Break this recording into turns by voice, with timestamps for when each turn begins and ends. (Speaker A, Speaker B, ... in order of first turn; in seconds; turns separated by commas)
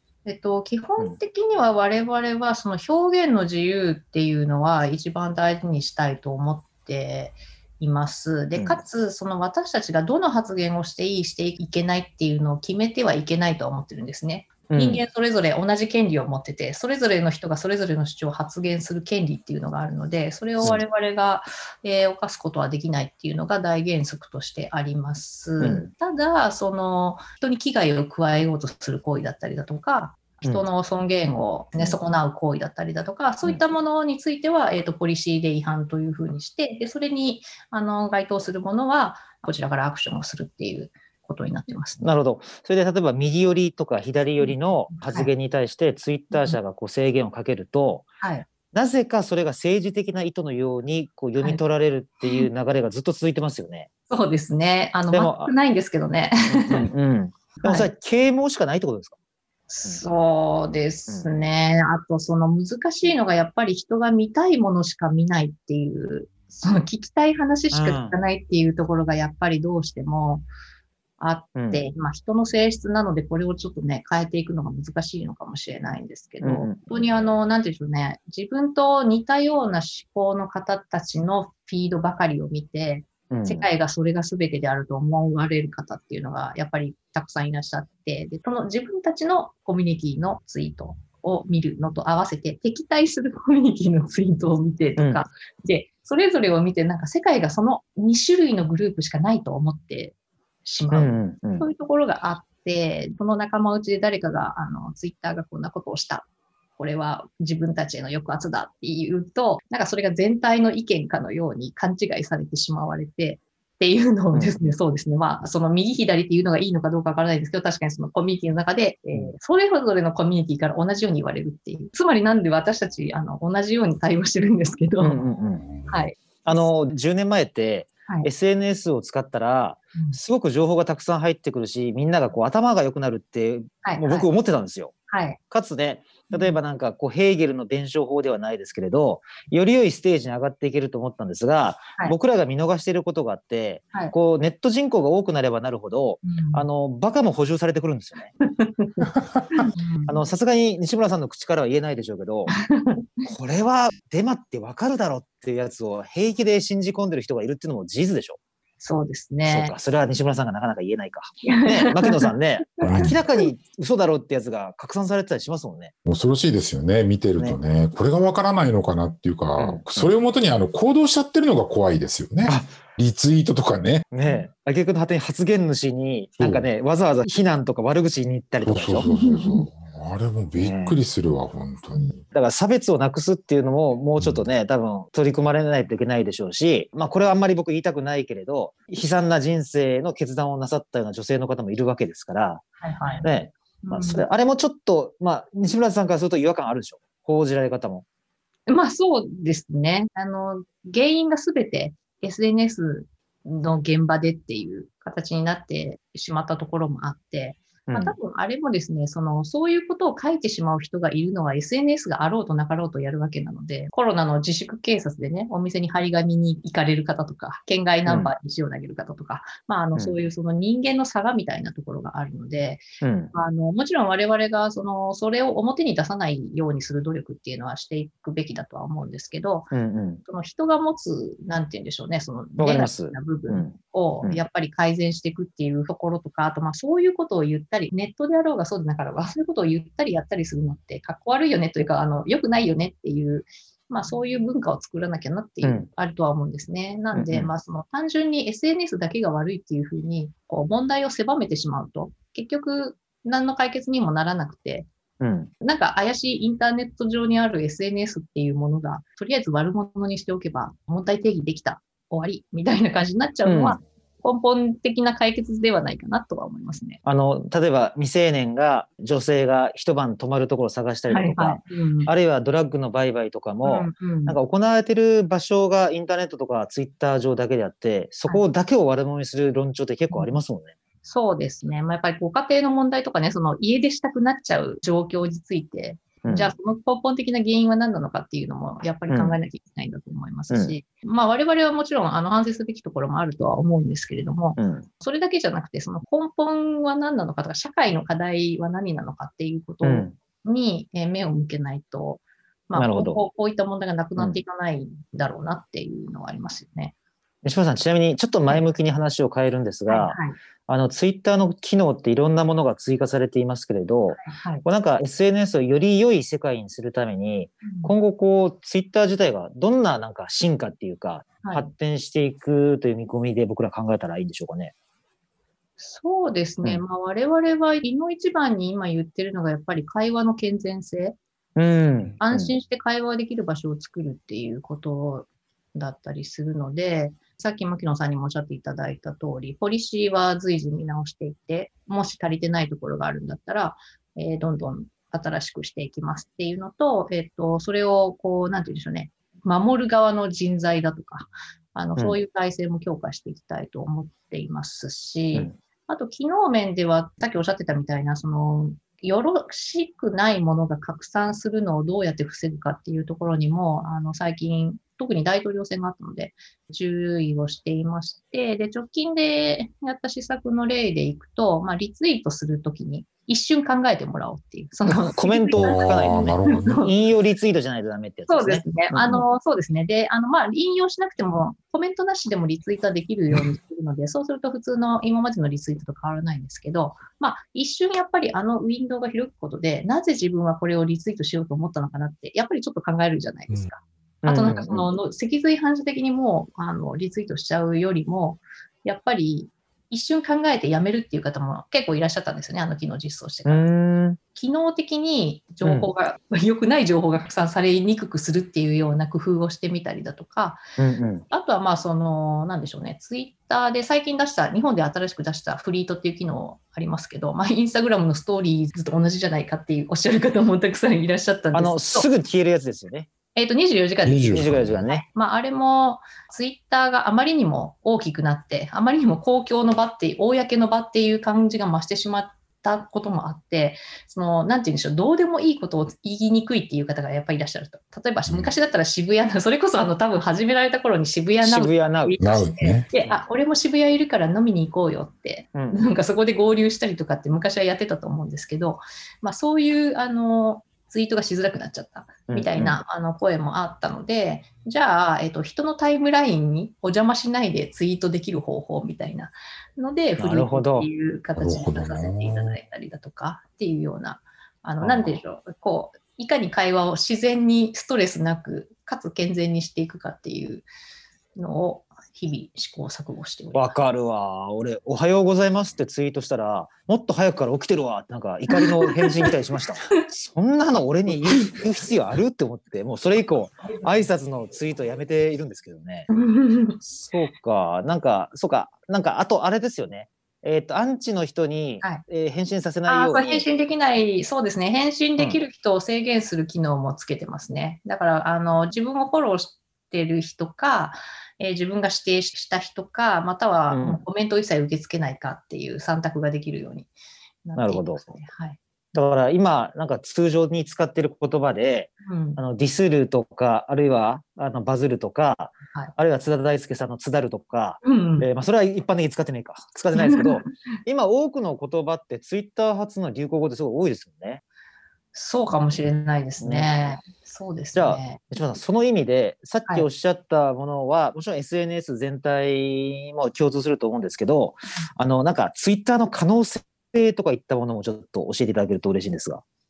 Speaker A: 0.2-42.0, Speaker B: 8.6-8.8, Speaker B: 14.7-15.0, Speaker B: 25.6-25.9, Speaker B: 42.0-48.1, Speaker A: 44.4-45.3, Speaker A: 46.3-46.6, Speaker A: 48.2-48.5, Speaker B: 48.7-53.9, Speaker A: 52.2-52.5, Speaker A: 54.1-56.9, Speaker B: 55.1-55.5, Speaker B: 56.5-59.2, Speaker A: 57.6-57.9, Speaker A: 59.7-70.5, Speaker B: 67.7-68.2, Speaker A: 71.2-125.2, Speaker B: 71.5-71.8, Speaker B: 76.4-76.8, Speaker B: 83.3-83.7, Speaker B: 95.0-95.2, Speaker B: 100.9-101.7, Speaker B: 125.0-125.7, Speaker A: 125.9-126.2, Speaker B: 126.5-135.0, Speaker A: 133.8-134.3, Speaker A: 135.1-135.4, Speaker B: 135.5-148.3, Speaker A: 136.3-136.6, Speaker A: 146.2-146.7, Speaker A: 148.4-149.1, Speaker A: 149.6-150.3, Speaker B: 150.1-152.5, Speaker A: 152.5-153.3, Speaker B: 153.3-158.4, Speaker A: 158.8-159.7, Speaker B: 159.5-165.9, Speaker A: 161.5-163.5, Speaker C: 162.8-163.1, Speaker C: 166.1-174.1, Speaker B: 169.6-170.1, Speaker B: 172.4-172.8, Speaker B: 174.1-179.1, Speaker C: 176.4-176.7, Speaker C: 178.6-182.2, Speaker A: 179.1-179.7, Speaker B: 180.6-181.0, Speaker B: 182.3-192.7, Speaker C: 184.2-184.5, Speaker A: 192.8-193.3, Speaker B: 193.2-198.1, Speaker A: 193.8-194.3, Speaker A: 198.7-229.7, Speaker B: 207.9-208.2, Speaker B: 218.1-218.3, Speaker B: 223.0-223.3, Speaker B: 229.7-230.2, Speaker A: 230.2-254.9, Speaker B: 232.6-234.4, Speaker B: 245.6-245.9, Speaker B: 247.1-247.5, Speaker B: 255.2-255.5, Speaker A: 255.6-267.0, Speaker B: 263.4-263.8, Speaker B: 267.0-280.8, Speaker A: 271.1-272.1, Speaker A: 273.6-274.4, Speaker A: 280.1-280.4, Speaker A: 281.0-306.9, Speaker B: 286.2-286.5, Speaker B: 289.1-289.4, Speaker B: 290.5-290.8, Speaker B: 294.6-294.9, Speaker B: 299.8-300.1, Speaker B: 302.8-303.2, Speaker B: 307.4-324.7, Speaker A: 309.9-310.4, Speaker A: 314.1-314.6, Speaker A: 317.6-317.9, Speaker A: 321.4-321.7, Speaker A: 325.8-331.2, Speaker B: 331.6-332.5, Speaker A: 332.2-376.9, Speaker B: 375.1-379.2, Speaker C: 375.6-376.8, Speaker A: 378.3-403.7, Speaker B: 394.2-394.9, Speaker B: 403.5-404.2, Speaker A: 404.3-410.6, Speaker B: 405.6-405.9, Speaker B: 410.8-411.2, Speaker A: 411.3-422.1, Speaker B: 421.5-423.1, Speaker A: 423.4-470.7, Speaker C: 424.0-424.8, Speaker B: 424.3-425.1, Speaker C: 438.3-438.5, Speaker B: 441.4-442.2, Speaker C: 442.2-442.9, Speaker B: 445.6-445.9, Speaker B: 452.3-452.8, Speaker B: 460.2-460.9, Speaker C: 461.4-462.6, Speaker B: 464.8-465.2, Speaker A: 471.4-473.8, Speaker B: 473.5-486.1, Speaker A: 478.5-479.3, Speaker A: 481.3-481.6, Speaker A: 486.1-486.8, Speaker B: 486.8-493.5, Speaker A: 492.9-506.9, Speaker B: 503.7-504.0, Speaker A: 507.4-508.6, Speaker B: 507.6-508.0, Speaker B: 508.9-524.4, Speaker A: 512.0-512.4, Speaker A: 517.8-518.3, Speaker A: 519.9-520.5, Speaker A: 525.1-528.2, Speaker B: 526.4-526.7, Speaker B: 527.7-539.4